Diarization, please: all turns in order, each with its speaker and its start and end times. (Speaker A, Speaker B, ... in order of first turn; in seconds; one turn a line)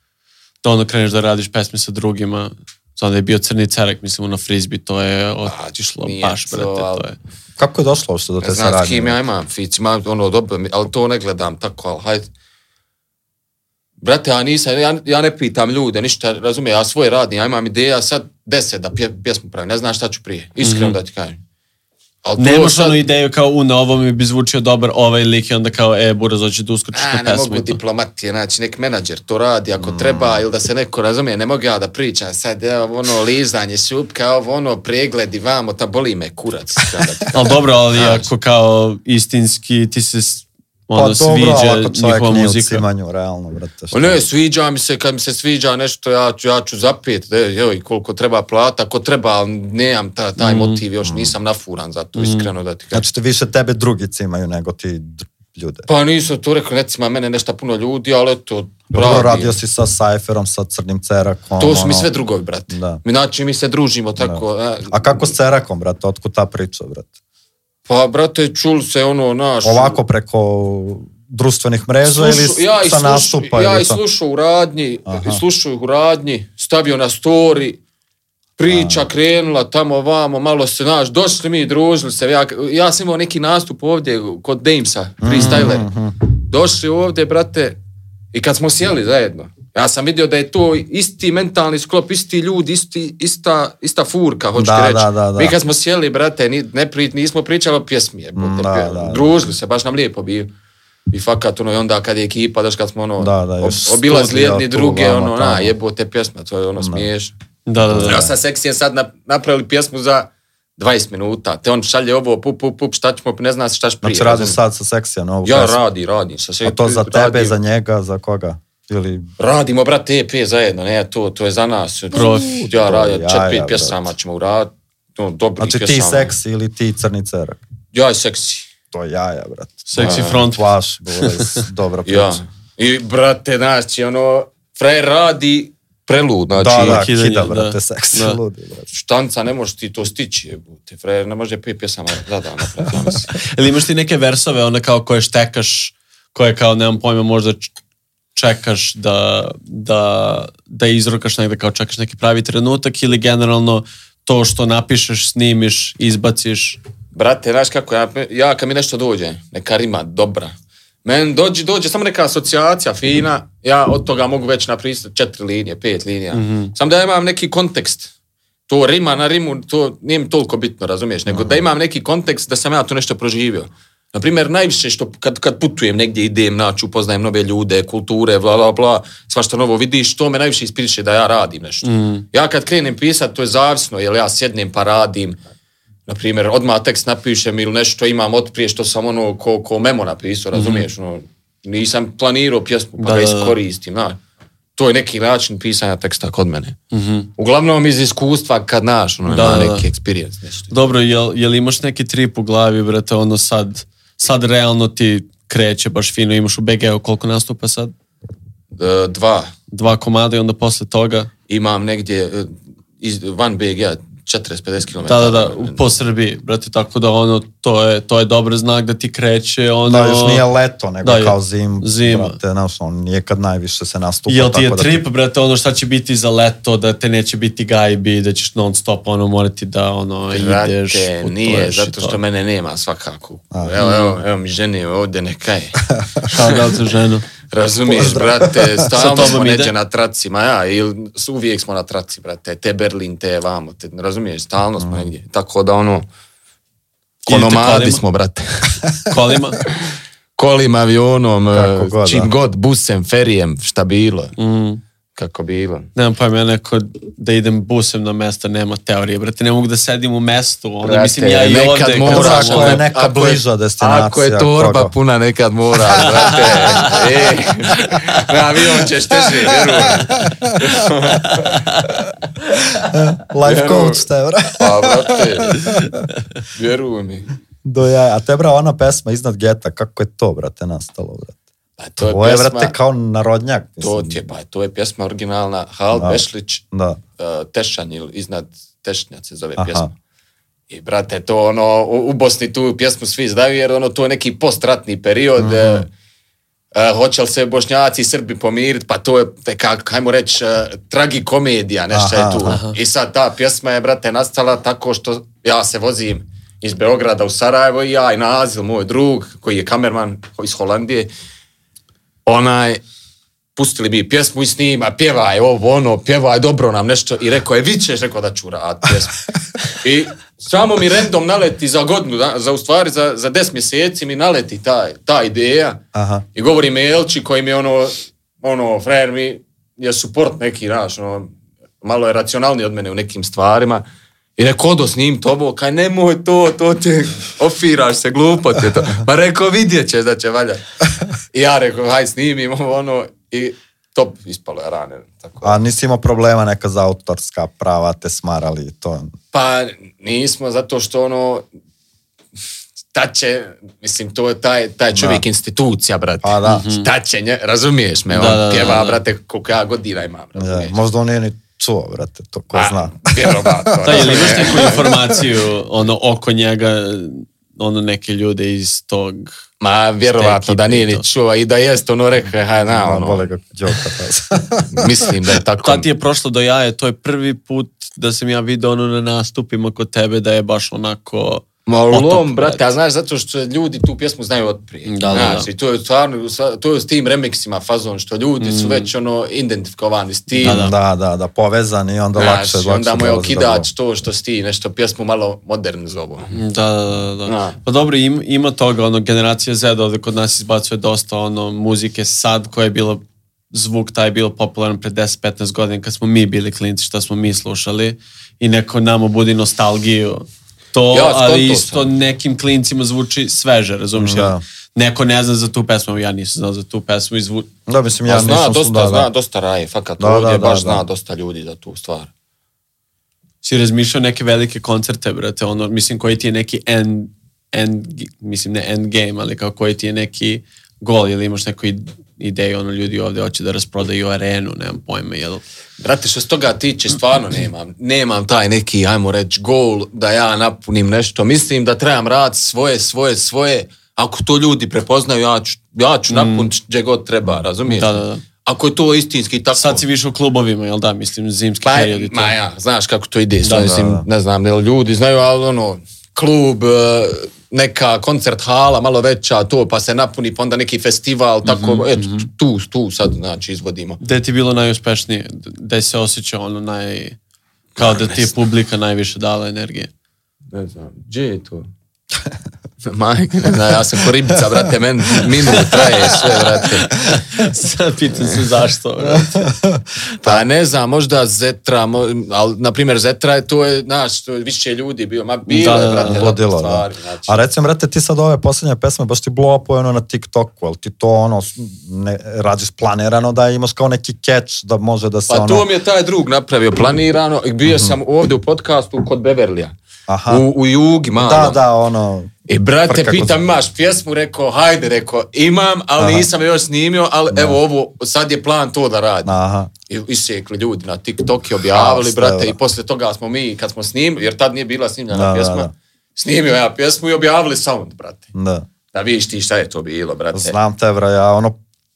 Speaker A: 0.6-7.2
Speaker B: 5.5-7.0
Speaker C: 7.6-9.2
Speaker B: 8.4-12.3
Speaker B: 14.0-21.4
Speaker A: 20.6-21.0
Speaker B: 22.2-23.0
Speaker A: 22.4-27.8
Speaker B: 26.9-37.4
Speaker C: 29.8-30.4
Speaker A: 37.3-42.8
Speaker B: 37.9-38.3
Speaker C: 41.0-44.2
Speaker B: 43.9-53.0
Speaker A: 50.4-50.8
Speaker C: 51.0-51.3
Speaker A: 52.2-52.5
Speaker C: 52.9-55.9
Speaker B: 55.9-59.6
Speaker C: 58.9-62.1
Speaker B: 61.6-65.3
Speaker C: 62.7-63.0
Speaker C: 64.2-67.1
Speaker B: 67.9-70.0
Speaker C: 69.6-74.0
Speaker B: 72.0-77.8
Speaker C: 75.1-75.4
Speaker B: 78.6-87.8
Speaker C: 78.7-79.1
Speaker C: 85.2-86.2
Speaker B: 88.3-100.5
Speaker C: 94.6-95.5
Speaker C: 98.4-99.3
Speaker B: 101.1-107.3
Speaker C: 103.2-105.7
Speaker C: 106.8-107.1
Speaker A: 107.7-108.3
Speaker C: 107.8-108.3
Speaker B: 108.0-114.6
Speaker C: 114.0-115.8
Speaker B: 115.4-117.5
Speaker C: 116.6-119.3
Speaker B: 119.4-126.3
Speaker A: 122.1-122.7
Speaker C: 122.2-124.0
Speaker C: 125.6-127.6
Speaker B: 127.9-128.7
Speaker C: 128.9-132.4
Speaker A: 129.9-131.6
Speaker B: 130.0-130.5
Speaker B: 132.1-137.1
Speaker C: 136.6-138.9
Speaker A: 136.8-138.4
Speaker B: 138.9-143.3
Speaker A: 143.4-147.7
Speaker A: 148.3-156.8
Speaker B: 157.1-160.5
Speaker B: 161.0-168.1
Speaker A: 166.3-166.7
Speaker B: 168.7-185.4
Speaker C: 171.3-171.6
Speaker A: 181.8-182.2
Speaker B: 186.1-194.2
Speaker A: 190.5-190.8
Speaker A: 193.0-193.6
Speaker B: 194.8-196.8
Speaker A: 196.9-197.3
Speaker B: 197.4-200.9
Speaker A: 199.3-199.8
Speaker A: 200.7-207.9
Speaker B: 208.7-209.5
Speaker A: 209.7-211.3
Speaker B: 211.5-215.8
Speaker A: 215.1-220.5
Speaker C: 219.9-225.0
Speaker A: 221.0-222.4
Speaker A: 224.3-232.2
Speaker B: 230.3-236.7
Speaker C: 233.5-233.8
Speaker A: 233.8-234.2
Speaker C: 235.9-236.2
Speaker A: 236.3-237.3
Speaker B: 237.5-246.1
Speaker C: 237.9-239.3
Speaker A: 238.9-239.7
Speaker C: 244.8-245.1
Speaker A: 247.3-248.0
Speaker B: 247.3-248.8
Speaker A: 249.1-249.6
Speaker B: 249.7-254.3
Speaker C: 251.5-252.3
Speaker A: 254.4-254.8
Speaker B: 255.2-255.9
Speaker A: 256.0-262.8
Speaker B: 260.8-271.9
Speaker C: 262.1-264.9
Speaker C: 265.9-267.0
Speaker A: 266.2-267.0
Speaker A: 267.8-268.2
Speaker C: 269.8-270.7
Speaker A: 271.2-271.9
Speaker C: 272.8-276.1
Speaker B: 273.4-275.9
Speaker B: 276.4-277.3
Speaker C: 277.6-281.4
Speaker B: 281.8-282.7
Speaker C: 282.0-284.2
Speaker B: 283.8-286.6
Speaker C: 285.9-287.0
Speaker B: 287.2-289.9
Speaker C: 289.6-289.9
Speaker B: 290.7-295.9
Speaker C: 295.4-295.9
Speaker B: 296.7-311.1
Speaker C: 301.9-302.6
Speaker A: 302.5-302.7
Speaker B: 312.3-312.8
Speaker B: 313.6-325.8
Speaker C: 325.9-326.2
Speaker B: 326.4-333.8
Speaker B: 334.4-340.6
Speaker B: 341.3-345.6
Speaker C: 345.4-349.1
Speaker B: 349.3-351.4
Speaker B: 352.9-360.8
Speaker C: 354.9-355.2
Speaker C: 356.2-356.7
Speaker A: 356.4-356.9
Speaker A: 358.1-359.0
Speaker C: 360.4-365.0
Speaker B: 362.5-364.9
Speaker A: 363.8-369.4
Speaker B: 369.6-373.3
Speaker A: 370.1-371.1
Speaker C: 372.7-375.1
Speaker B: 374.7-375.9
Speaker A: 375.6-382.7
Speaker B: 381.7-390.7
Speaker A: 384.9-385.5
Speaker A: 388.4-388.9
Speaker A: 390.4-390.8
Speaker C: 390.4-393.7
Speaker B: 392.1-396.3
Speaker A: 396.3-417.5
Speaker B: 397.3-397.6
Speaker B: 410.9-411.9
Speaker C: 414.0-414.4
Speaker C: 417.7-419.1
Speaker B: 418.1-422.1
Speaker C: 420.0-420.9
Speaker A: 423.4-435.4
Speaker B: 435.8-449.8
Speaker A: 446.1-446.5
Speaker A: 447.6-448.2
Speaker A: 449.5-452.4
Speaker B: 451.6-464.0
Speaker A: 453.4-453.9
Speaker C: 453.7-454.1
Speaker A: 461.4-462.3
Speaker A: 464.0-467.2
Speaker B: 467.8-468.3
Speaker A: 467.8-469.9
Speaker B: 470.5-471.7
Speaker B: 472.9-477.0
Speaker C: 475.1-476.3
Speaker A: 476.9-479.5
Speaker C: 479.0-480.4
Speaker B: 480.2-487.4
Speaker A: 485.5-486.3
Speaker C: 485.9-495.7
Speaker B: 495.3-499.7
Speaker C: 497.7-497.9
Speaker C: 500.1-500.4
Speaker B: 500.3-501.6
Speaker C: 501.2-502.3
Speaker B: 502.5-509.3
Speaker C: 502.9-503.4
Speaker C: 506.0-506.3
Speaker C: 507.3-507.6
Speaker C: 509.2-509.7
Speaker B: 509.9-518.3
Speaker C: 511.7-512.6
Speaker C: 515.1-515.7
Speaker C: 518.4-518.7
Speaker B: 518.9-520.6
Speaker C: 520.3-521.6